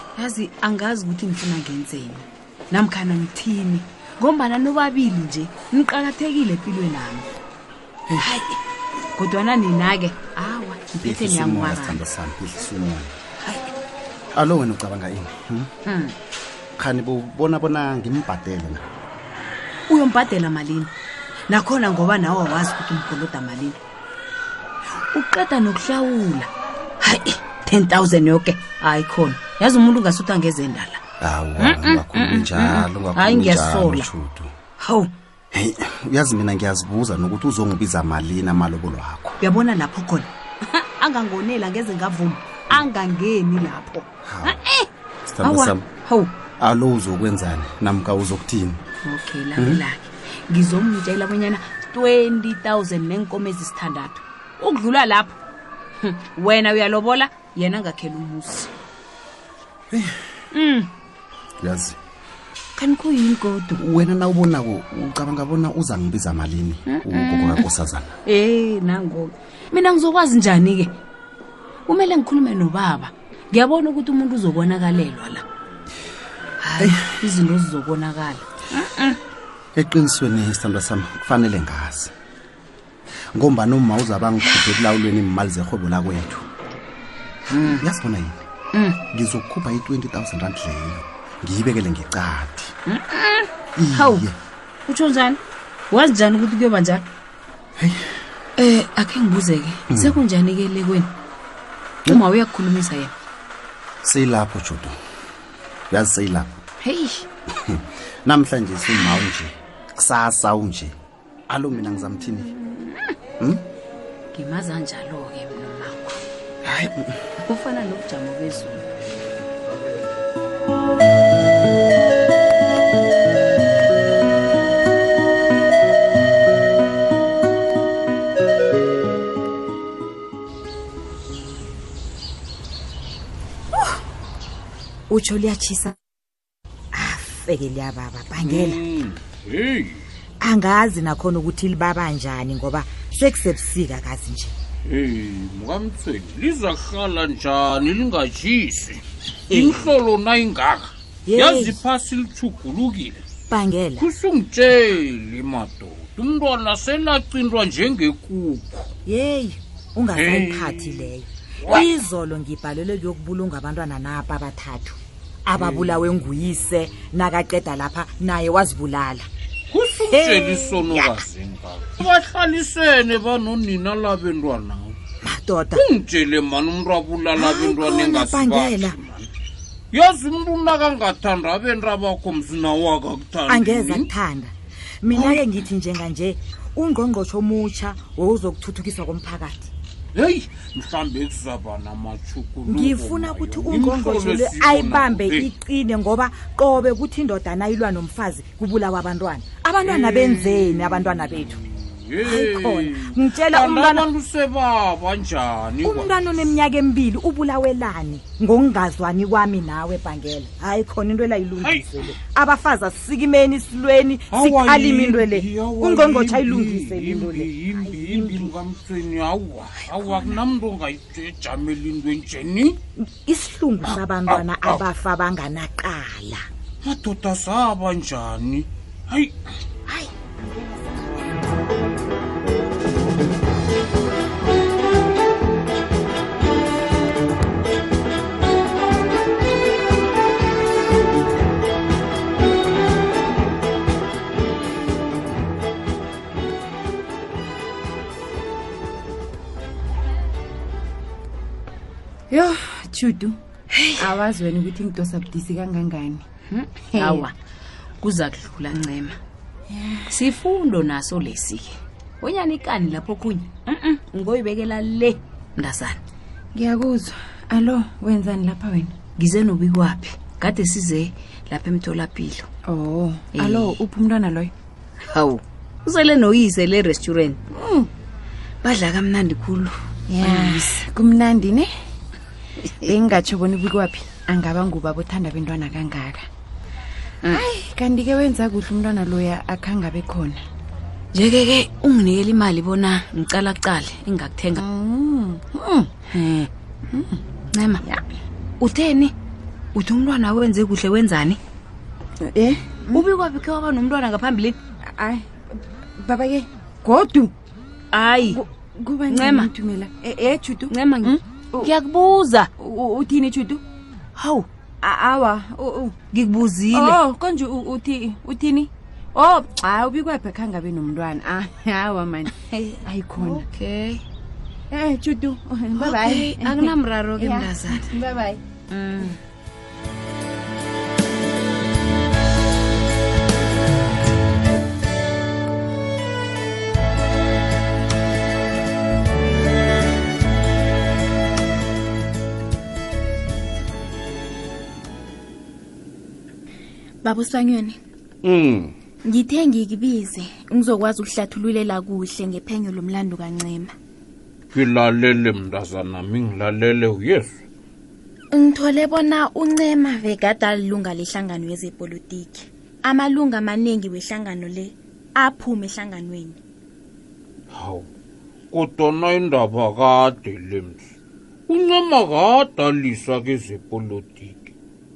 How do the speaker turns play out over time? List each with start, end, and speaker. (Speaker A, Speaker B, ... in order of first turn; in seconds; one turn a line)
Speaker A: 0.1-7.3
Speaker A: 8.1-8.6
Speaker A: 9.1-12.0
Speaker B: 11.0-13.1
Speaker B: 14.3-15.7
Speaker A: 15.8-16.1
Speaker B: 16.8-18.8
Speaker A: 19.9-20.9
Speaker A: 21.5-23.8
Speaker A: 24.9-26.5
Speaker A: 27.0-31.0
Speaker B: 31.2-34.5
Speaker A: 31.6-34.1
Speaker A: 34.8-35.1
Speaker B: 35.5-39.4
Speaker A: 39.4-44.9
Speaker B: 44.2-44.6
Speaker B: 45.3-45.9
Speaker A: 45.4-46.3
Speaker B: 46.6-48.8
Speaker A: 49.0-55.4
Speaker B: 49.6-49.8
Speaker A: 56.0-58.7
Speaker A: 60.5-60.9
Speaker B: 61.6-62.0
Speaker A: 62.8-63.8
Speaker B: 63.8-68.1
Speaker A: 66.9-67.7
Speaker A: 68.2-70.9
Speaker A: 71.8-75.4
Speaker A: 76.6-79.2
Speaker B: 79.8-82.1
Speaker B: 83.3-86.5
Speaker A: 87.5-87.8
Speaker B: 87.8-88.4
Speaker A: 88.7-89.0
Speaker B: 89.1-92.7
Speaker A: 92.9-94.2
Speaker B: 93.8-94.3
Speaker A: 94.9-97.0
Speaker A: 98.6-101.1
Speaker B: 99.9-100.2
Speaker A: 102.1-103.1
Speaker B: 104.0-105.0
Speaker B: 105.9-106.6
Speaker A: 106.8-107.2
Speaker B: 107.6-110.9
Speaker B: 111.5-112.5
Speaker A: 112.7-113.0
Speaker B: 113.4-113.7
Speaker A: 114.3-116.2
Speaker B: 116.7-117.1
Speaker A: 117.4-118.8
Speaker C: 135.1-136.0
Speaker C: 136.9-138.8
Speaker D: 138.4-140.0
Speaker C: 140.4-144.5
Speaker D: 144.8-153.2
Speaker C: 149.5-149.8
Speaker C: 151.3-151.8
Speaker C: 153.5-154.1
Speaker D: 154.0-158.9
Speaker C: 159.1-169.3
Speaker D: 160.1-161.9
Speaker D: 165.6-165.9
Speaker D: 169.7-175.0
Speaker C: 170.2-171.1
Speaker C: 175.2-175.8
Speaker D: 175.7-179.3
Speaker C: 177.3-178.9
Speaker D: 179.9-184.1
Speaker C: 183.5-189.7
Speaker D: 185.1-185.4
Speaker D: 190.1-195.5
Speaker C: 192.7-201.6
Speaker D: 199.8-206.5
Speaker C: 202.2-204.1
Speaker C: 205.8-218.5
Speaker D: 211.6-211.9
Speaker D: 214.3-222.8
Speaker C: 219.9-220.4
Speaker C: 223.0-226.4
Speaker D: 223.8-224.8
Speaker D: 226.8-229.3
Speaker E: 252.3-253.4
Speaker E: 253.9-256.2
Speaker A: 256.5-257.3
Speaker E: 256.9-257.3
Speaker A: 258.0-259.2
Speaker E: 259.7-260.1
Speaker A: 260.1-266.0
Speaker E: 266.5-268.9
Speaker A: 269.2-272.5
Speaker E: 272.7-274.5
Speaker A: 273.3-273.8
Speaker A: 275.1-277.4
Speaker E: 277.6-277.9
Speaker A: 278.6-280.7
Speaker E: 280.1-281.7
Speaker E: 282.7-286.3
Speaker E: 287.3-290.4
Speaker A: 291.1-294.6
Speaker E: 294.6-295.9
Speaker A: 296.1-296.5
Speaker E: 296.9-297.2
Speaker A: 297.5-297.8
Speaker A: 298.6-299.1
Speaker A: 299.7-301.4
Speaker E: 302.2-303.1
Speaker A: 302.9-304.6
Speaker E: 304.9-307.3
Speaker A: 307.9-308.4
Speaker E: 308.3-311.7
Speaker A: 309.1-309.5
Speaker A: 310.7-312.5
Speaker E: 312.6-313.6
Speaker A: 314.2-314.4
Speaker E: 314.8-315.9
Speaker A: 316.1-317.0
Speaker E: 316.7-323.4
Speaker A: 322.4-324.0
Speaker E: 324.7-328.4
Speaker A: 325.7-327.9
Speaker A: 328.7-329.2
Speaker F: 347.0-347.8
Speaker D: 348.2-348.7
Speaker F: 349.0-353.7
Speaker D: 354.5-357.4
Speaker F: 358.3-366.4
Speaker D: 367.5-367.9
Speaker D: 368.5-370.8
Speaker D: 371.5-374.4